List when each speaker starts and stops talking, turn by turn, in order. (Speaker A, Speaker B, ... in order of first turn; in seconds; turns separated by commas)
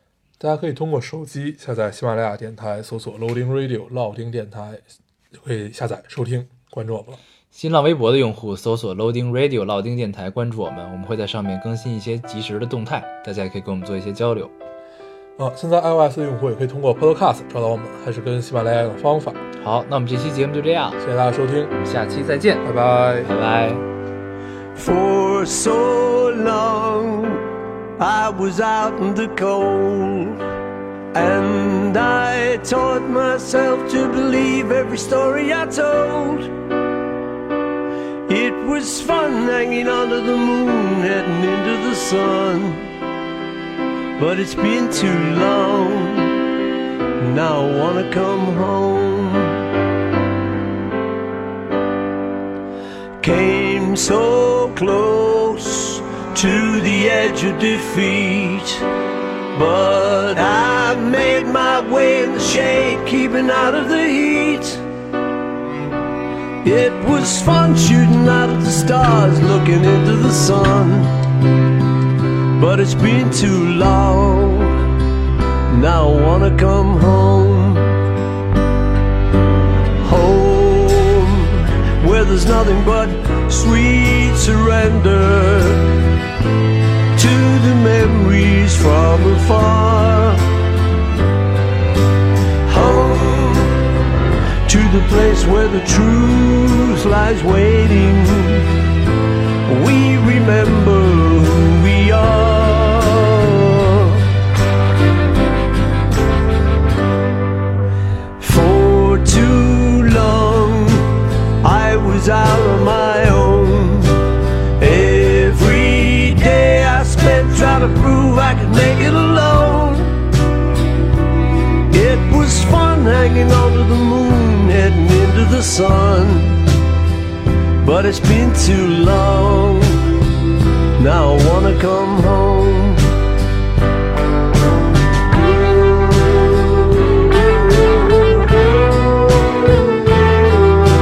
Speaker A: 0.4-7.2, Speaker B: 7.5-14.5, Speaker A: 15.4-19.4, Speaker B: 19.6-21.0, Speaker A: 21.0-21.7, Speaker B: 21.7-22.6, Speaker A: 22.6-23.3, Speaker B: 23.2-23.8, Speaker C: 24.7-27.4, Speaker C: 28.0-30.4, Speaker C: 31.1-36.5, Speaker C: 38.3-42.9, Speaker C: 44.2-46.4, Speaker C: 47.2-49.7, Speaker C: 53.2-58.9, Speaker C: 59.5-64.8, Speaker C: 66.6-71.1, Speaker C: 72.6-74.8, Speaker C: 75.7-78.0, Speaker C: 80.0-85.9, Speaker C: 87.1-90.4, Speaker C: 92.6-93.8, Speaker C: 94.6-98.7, Speaker C: 99.7-104.2, Speaker C: 108.4-114.2, Speaker C: 114.8-120.2, Speaker C: 121.9-126.6, Speaker C: 127.8-130.1, Speaker C: 131.0-133.1